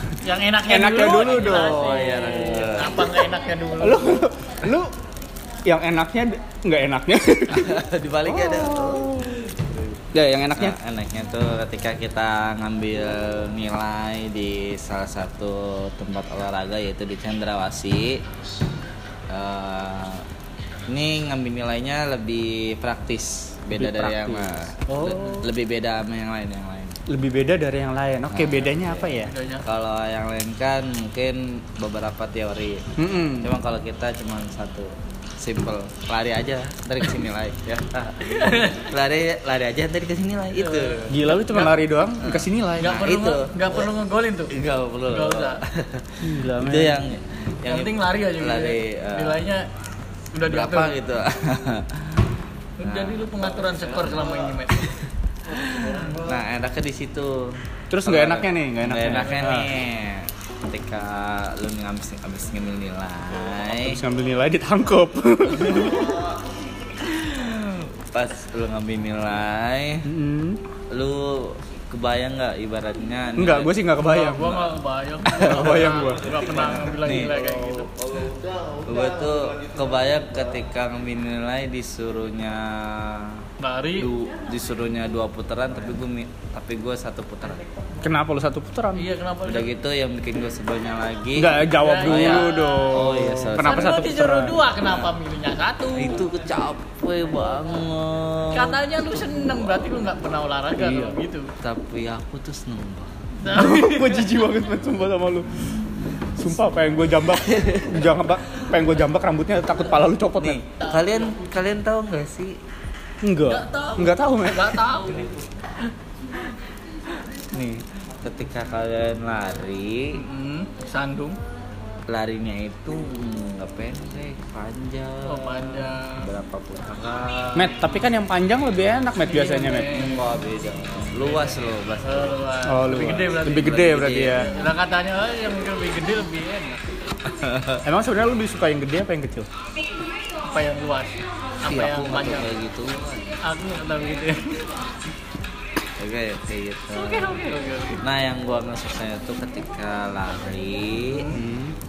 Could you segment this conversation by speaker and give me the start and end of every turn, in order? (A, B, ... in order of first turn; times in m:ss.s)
0:00.2-0:04.0 A
0:00.7-0:02.7 B
0:01.1-0:03.0 C
0:03.8-0:04.9 B
0:05.6-0:09.5 B
0:07.5-0:09.8 C
0:10.1-0:10.8 B
0:10.5-0:18.2 C
0:19.3-0:20.2 C
0:20.9-0:27.0 C
0:23.7-0:25.4 B
0:27.1-0:29.3 B
0:28.3-0:28.9 C
0:28.8-0:29.6 A
0:29.6-0:32.9 C
0:33.0-0:33.5 B
0:33.4-0:41.2 C
0:38.3-0:38.8 A
0:40.6-0:41.7 A
0:41.1-0:43.0 B
0:42.2-0:43.9 C
0:42.8-0:44.5 A
0:44.5-0:49.4 C
0:45.0-0:45.6 A
0:46.2-0:47.0 B
0:47.7-0:49.6 A
0:50.3-0:50.9 A
0:50.5-0:54.8 C
0:52.8-0:54.9 A
0:55.5-0:57.4 C
0:57.9-0:59.7 B
0:58.0-1:04.0 C
1:03.7-1:06.2 B
1:05.6-1:10.1 C
1:10.0-1:10.6 B
1:10.9-1:13.7 C
1:13.4-1:14.5 B
1:14.0-1:17.9 A
1:14.4-1:14.8 C
1:15.3-1:23.4 C
1:15.4-1:16.3 B
1:23.6-1:24.1 A
1:24.0-1:27.6 C
1:28.0-1:29.0 B
1:29.0-1:29.7 A
1:29.4-1:34.0 C
1:31.3-1:34.6 B
1:31.8-1:32.9 A
1:33.6-1:36.2 A
1:34.8-1:35.1 C
1:36.0-1:39.9 C
1:38.5-1:41.5 A
1:40.8-1:41.2 B
1:41.6-1:43.1 C
1:43.4-1:44.4 A
1:43.4-1:45.7 B
1:46.4-1:50.6 B
1:46.7-1:48.1 C
1:50.4-1:52.6 C
1:53.2-1:54.8 B
1:53.4-1:55.4 A
1:57.4-2:00.2 C
2:00.2-2:01.4 A
2:02.1-2:08.0 C
2:05.2-2:06.2 A
2:07.5-2:10.0 B
2:09.2-2:10.4 A
2:09.9-2:12.4 C
2:11.1-2:13.7 A
2:12.7-2:14.5 B
2:13.5-2:14.5 C
2:14.3-2:17.1 A
2:17.3-2:17.8 C
2:17.8-2:19.5 B
2:20.4-2:22.5 A
2:21.6-2:23.4 C
2:23.4-2:24.6 A
2:26.0-2:31.4 C
2:26.9-2:28.0 A
2:31.3-2:31.8 B